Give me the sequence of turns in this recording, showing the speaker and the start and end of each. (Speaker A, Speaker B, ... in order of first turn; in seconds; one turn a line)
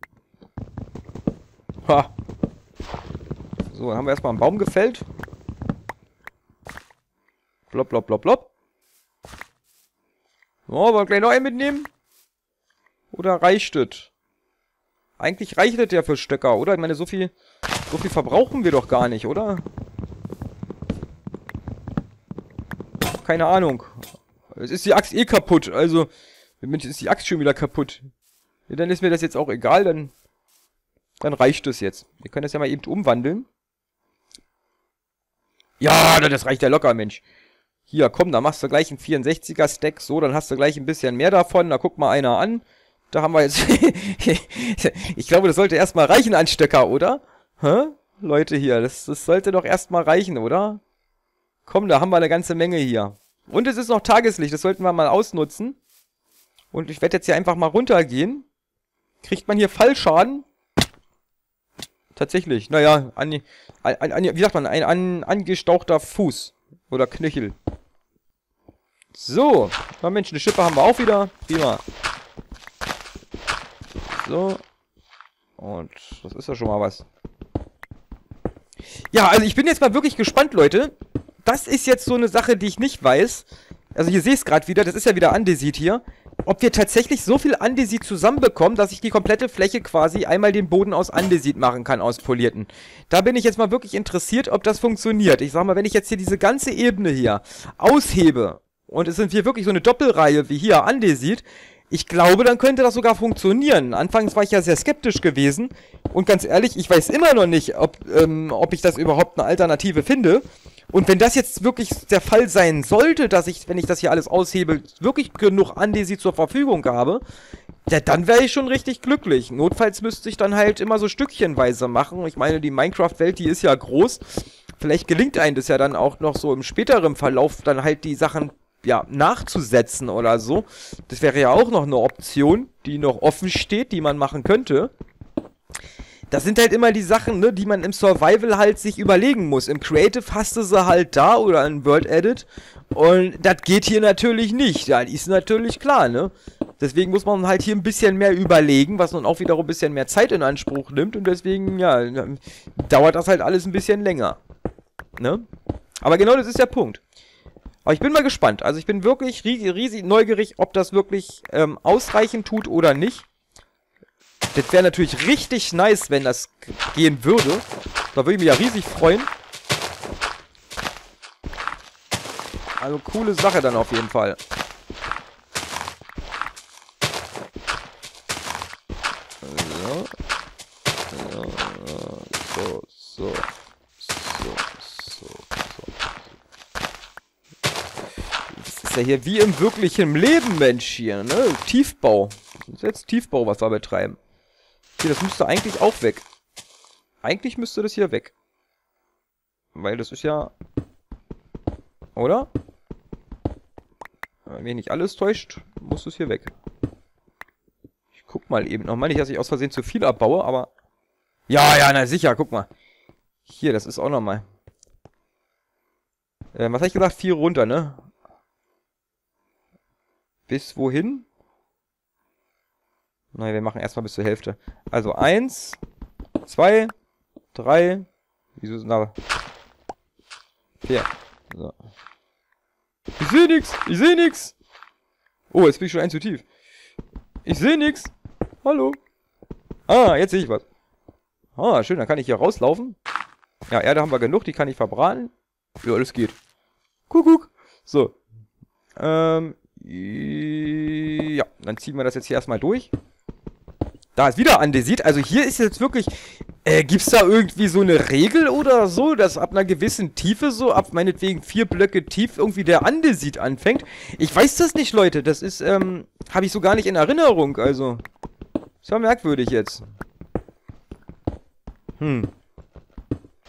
Speaker A: 1.8-2.1
Speaker A: 3.7-5.0
Speaker A: 7.7-8.5
Speaker A: 10.7-11.9
Speaker A: 13.1-14.1
Speaker A: 15.2-17.3
Speaker A: 17.9-19.6
Speaker A: 23.2-23.9
Speaker A: 24.5-26.1
Speaker A: 26.6-28.1
Speaker A: 28.7-30.1
Speaker A: 31.2-33.5
Speaker A: 35.8-37.2
Speaker A: 37.9-50.8
Speaker A: 51.6-55.8
Speaker A: 56.7-58.5
Speaker A: 59.2-60.5
Speaker A: 62.1-67.6
Speaker A: 69.1-71.8
Speaker A: 74.1-74.6
Speaker A: 75.6-77.0
Speaker A: 79.1-80.9
Speaker A: 81.4-117.2
Speaker A: 117.9-134.9
Speaker A: 136.3-154.4
Speaker A: 155.2-155.4
Speaker A: 156.0-157.0
Speaker A: 157.8-163.2
Speaker A: 164.5-169.3
Speaker A: 172.8-174.4
Speaker A: 179.4-180.1
Speaker A: 181.1-183.5
Speaker A: 184.0-185.9
Speaker A: 188.5-194.2
Speaker A: 195.0-196.2
Speaker A: 197.2-198.3
Speaker A: 199.7-200.5
Speaker A: 202.2-202.5
Speaker A: 204.5-206.5
Speaker A: 208.1-210.7
Speaker A: 211.5-212.7
Speaker A: 213.4-214.4
Speaker A: 216.5-218.1
Speaker A: 220.5-221.2
Speaker A: 223.3-225.8
Speaker A: 226.4-226.9
Speaker A: 227.5-228.1
Speaker A: 228.6-229.1
Speaker A: 230.8-231.7
Speaker A: 233.2-234.5
Speaker A: 235.5-236.4
Speaker A: 237.4-238.1
Speaker A: 238.6-239.0
Speaker A: 239.9-240.6
Speaker A: 241.6-242.9
Speaker A: 243.7-245.3
Speaker A: 245.8-246.4
Speaker A: 247.1-248.2
Speaker A: 249.0-252.9
Speaker A: 254.2-268.0
Speaker A: 268.8-269.8
Speaker A: 272.0-272.3